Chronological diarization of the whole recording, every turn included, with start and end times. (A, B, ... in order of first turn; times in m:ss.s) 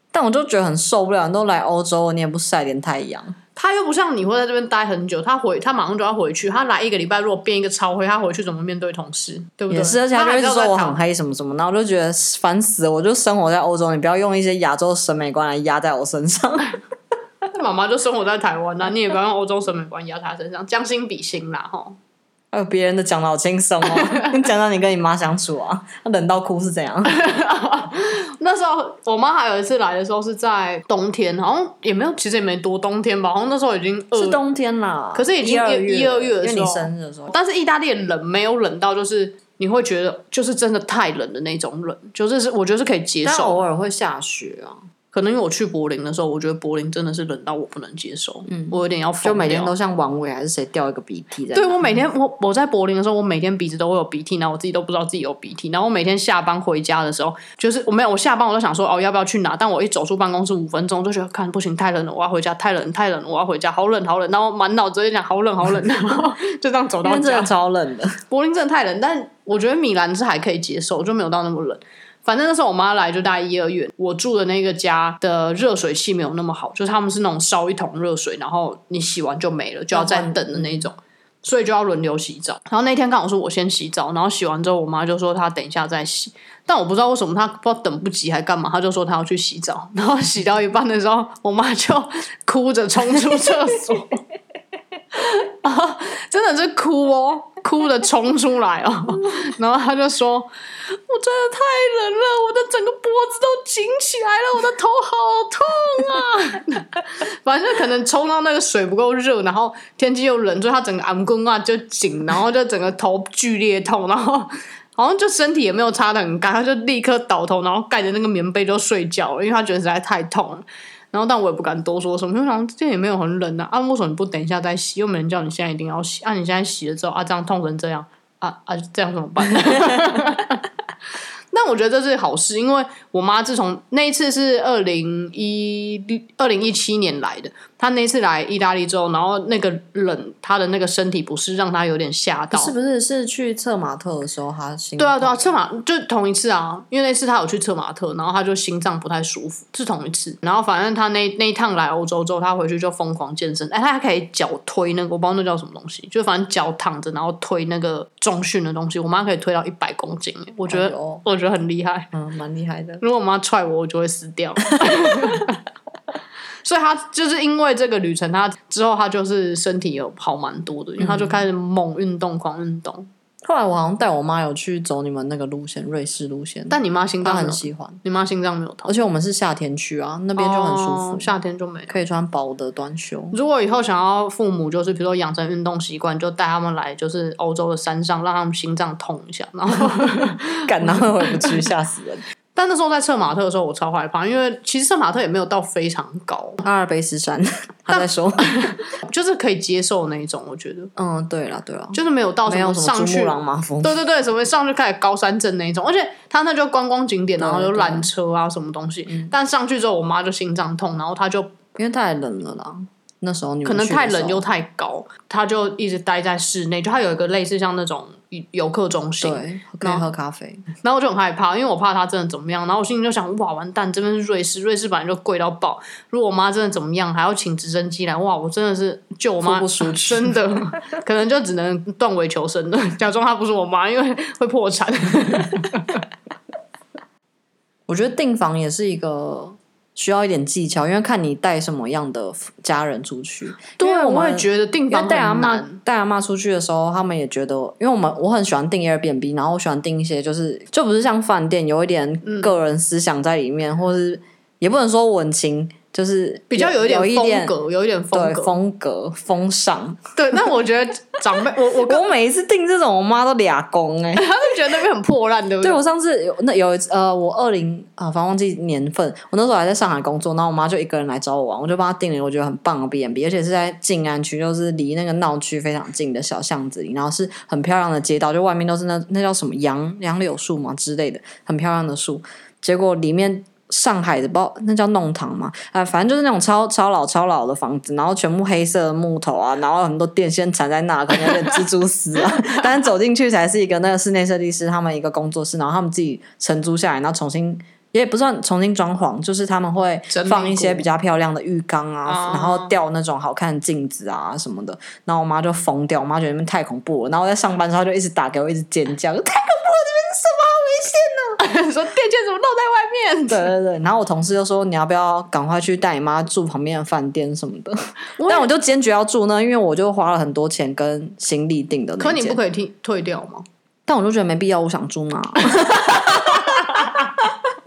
0:00.1-0:03.4 A
0:03.6-0:11.0 B
0:09.7-0:16.8 A
0:17.5-0:22.0 B
0:22.5-0:27.2 A
0:24.0-0:24.3 B
0:27.0-0:34.4 B
0:34.2-0:37.4 A
0:35.2-0:43.6 B
0:43.2-0:44.8 A
0:45.1-0:49.7 B
0:48.5-0:52.0 A
0:51.5-1:07.5 B
1:07.0-1:08.2 A
1:08.3-1:34.2 B
1:19.9-1:20.9 A
1:35.2-2:10.7 B
2:11.5-2:22.7 B
2:22.5-2:25.4 A
2:25.0-2:42.1 B
2:40.7-2:41.2 A
2:42.1-2:43.0 A
2:43.0-2:45.6 B
2:46.6-2:53.1 B
2:51.0-2:51.4 A
2:53.4-2:58.0 A
2:56.7-2:58.9 B
2:58.9-3:01.3 A
3:00.4-3:02.0 B
3:01.9-3:03.4 A
3:03.3-3:11.6 B
3:10.6-3:12.2 A
3:12.6-3:16.6 B
3:16.6-3:18.6 A
3:17.9-3:20.9 B
3:21.0-3:24.0 A
3:21.9-3:31.6 B
3:27.4-3:28.1 A
3:31.8-3:34.4 A
3:33.6-3:40.1 B
3:39.2-3:40.6 A
3:40.7-3:56.0 B
3:49.4-3:50.4 A
3:57.9-4:17.5 A
4:03.8-4:05.8 B
4:12.2-4:12.5 B
4:16.5-4:18.6 B
4:18.1-4:20.0 A
4:20.2-4:22.1 B
4:21.8-4:24.3 A
4:24.2-4:25.8 B
4:25.6-5:11.4 A
4:52.4-4:52.7 B
5:00.1-5:00.9 B
5:02.1-5:02.7 B
5:11.4-5:13.5 B
5:13.3-5:22.4 A
5:18.2-5:18.5 B
5:22.0-5:23.5 B
5:23.9-5:27.0 A
5:25.4-5:27.1 B